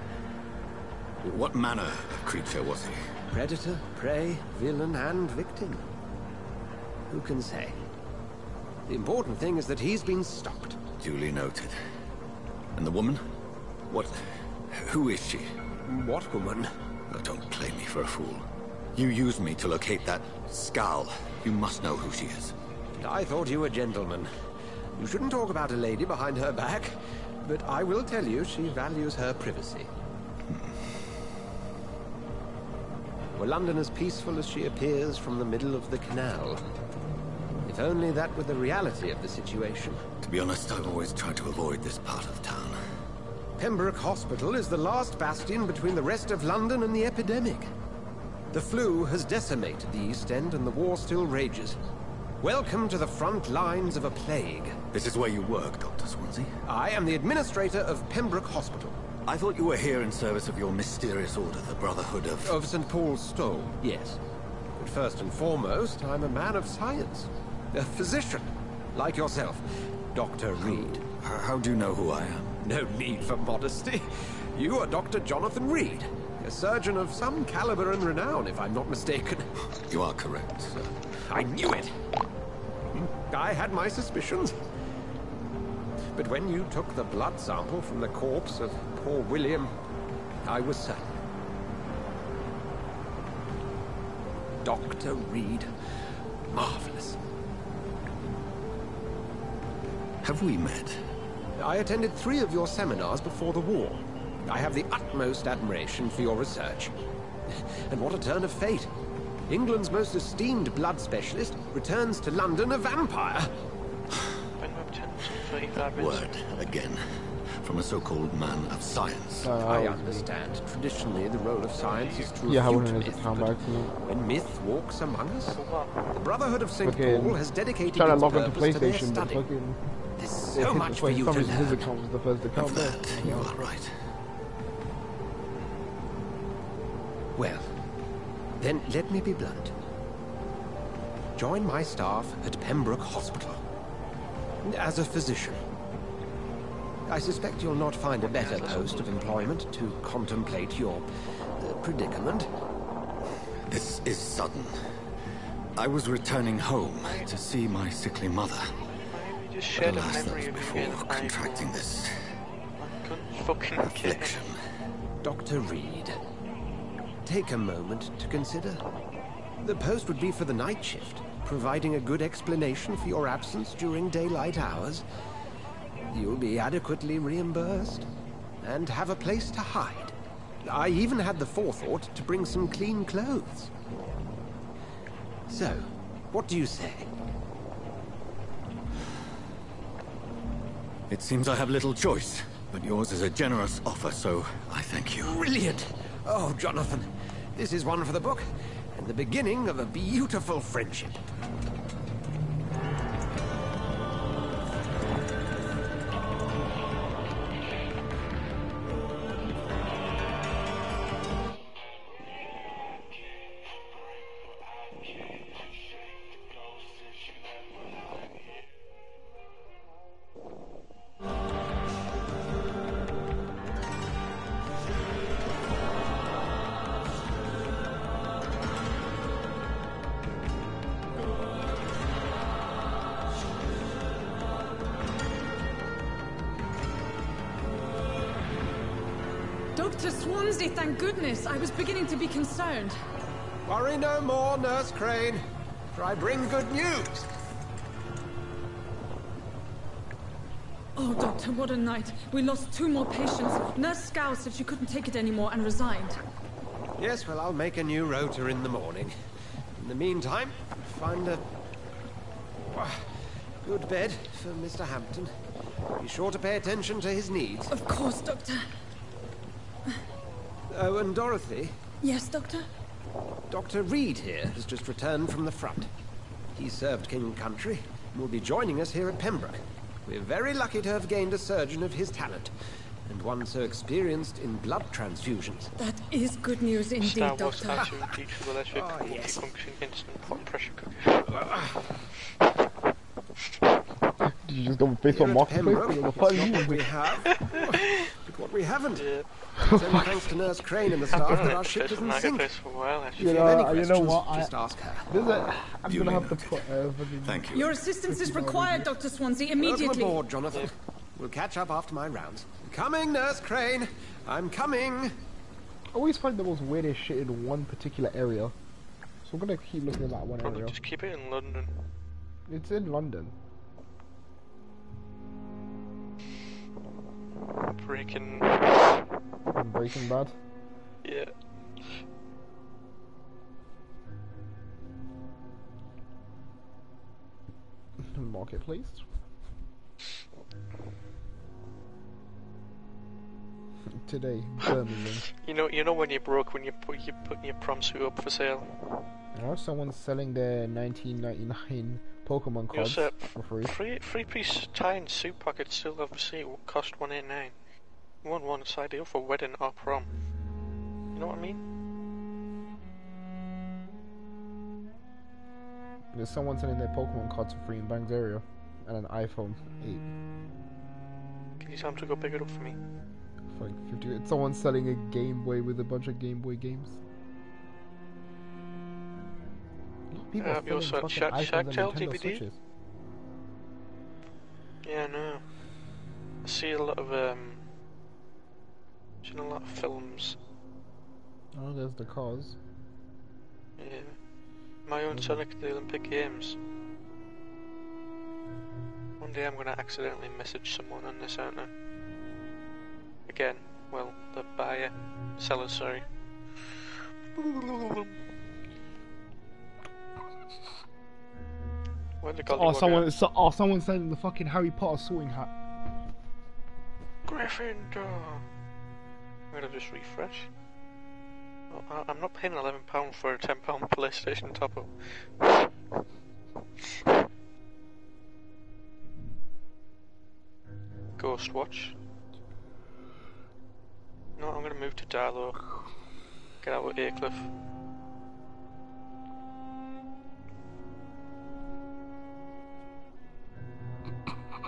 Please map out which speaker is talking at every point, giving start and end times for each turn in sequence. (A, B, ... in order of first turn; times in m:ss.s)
0:01.2-0:03.1 A
0:03.3-0:05.9 B
0:07.1-0:07.8 B
0:08.9-0:10.8 B
0:11.0-0:11.8 A
0:12.8-0:13.2 A
0:13.9-0:14.2 A
0:14.7-0:15.5 A
0:15.9-0:16.7 B
0:17.1-0:22.6 A
0:23.0-0:24.3 B
0:25.0-0:29.9 B
0:33.4-0:36.7 B
0:37.7-0:40.0 B
0:40.2-0:42.8 A
0:43.6-0:47.7 B
0:48.5-0:51.8 B
0:52.4-0:54.8 B
0:54.9-0:56.5 A
0:56.6-0:59.0 B
0:59.3-1:02.6 A
1:02.4-1:04.2 B
1:04.8-1:11.0 B
1:10.6-1:12.6 A
1:12.6-1:19.5 B
1:19.9-1:21.0 A
1:21.3-1:22.0 B
1:23.3-1:24.6 B
1:26.1-1:29.8 B
1:30.4-1:31.1 B
1:34.8-1:35.7 B
1:36.6-1:37.1 B
1:40.2-1:41.0 A
1:41.6-1:47.0 B
1:47.5-1:48.9 B
1:49.5-1:53.6 B
1:54.6-1:56.4 C
1:55.9-1:59.5 A
1:59.4-2:00.3 D
1:59.6-2:05.6 B
2:01.8-2:02.4 C
2:02.4-2:03.9 D
2:05.6-2:06.0 C
2:06.1-2:09.5 B
2:06.8-2:09.8 D
2:10.2-2:11.9 B
2:10.5-2:13.6 D
2:12.6-2:14.0 A
2:17.4-2:17.8 B
2:18.6-2:19.7 B
2:21.4-2:23.6 B
2:24.6-2:25.6 B
2:27.1-2:32.5 B
2:33.7-2:34.8 A
2:35.8-2:38.8 A
2:37.0-2:37.3 C
2:39.1-2:41.7 C
2:39.8-2:42.3 A
2:42.8-2:44.5 C
2:43.9-2:44.6 A
2:45.2-2:46.3 B
2:47.2-2:48.8 B
2:49.6-2:55.1 B
2:56.1-2:58.1 B
2:58.6-3:03.7 B
3:05.5-3:07.2 B
3:11.1-3:15.4 A
3:15.2-3:21.2 B
3:59.8-4:03.0 E
4:03.7-4:07.3 B
4:11.0-4:16.2 E
4:17.0-4:19.2 B
4:19.7-4:21.4 B
4:22.7-4:25.4 B
4:26.0-4:27.8 B
4:27.7-4:28.7 E
4:30.7-4:31.8 B
4:32.0-4:32.7 E
4:33.5-4:35.9 B
4:36.6-4:45.7 B
4:45.8-4:48.0 E
4:47.0-4:51.5 C
4:48.8-4:49.3 B
4:54.3-4:56.8 D
4:55.1-5:02.5 B
4:57.4-4:58.1 C
4:59.0-4:59.3 C
4:59.6-5:00.2 D
5:01.1-5:03.6 C
5:03.2-5:04.5 D
5:03.2-5:05.1 B
5:05.1-5:09.0 D
5:05.9-5:06.7 A
5:07.2-5:07.8 A
5:07.5-5:10.2 E
5:09.5-5:15.2 B
5:15.9-5:18.6 D
5:19.2-5:20.8 D
5:20.4-5:21.8 C
5:22.5-5:23.3 D
5:27.6-5:28.9 C
5:29.6-5:30.4 D
5:31.0-5:31.3 C
5:38.1-5:39.0 D
5:43.9-5:45.3 D
5:45.3-5:48.7 C
5:49.3-5:53.7 D
5:52.7-5:57.6 C
5:58.2-6:00.1 C
6:01.2-6:01.6 C
6:06.1-6:10.0 D
6:11.6-6:12.8 C
6:13.5-6:17.0 D
6:20.1-6:22.6 D
6:20.4-6:22.4 C
6:24.8-6:25.4 C
6:26.4-6:27.6 C
6:29.2-6:30.4 C
6:31.5-6:32.6 D
6:33.8-6:34.2 C
6:34.9-6:36.6 C
6:35.1-6:35.4 D
6:39.2-6:41.7 C
6:43.3-6:46.1 C
6:47.4-6:48.2 C
6:52.2-6:53.1 C
6:52.5-6:55.5 D
6:57.3-6:58.4 C
6:59.5-7:00.5 C
7:01.7-7:05.5 C
7:11.2-7:12.0 C
7:14.4-7:15.6 C
7:16.6-7:17.5 C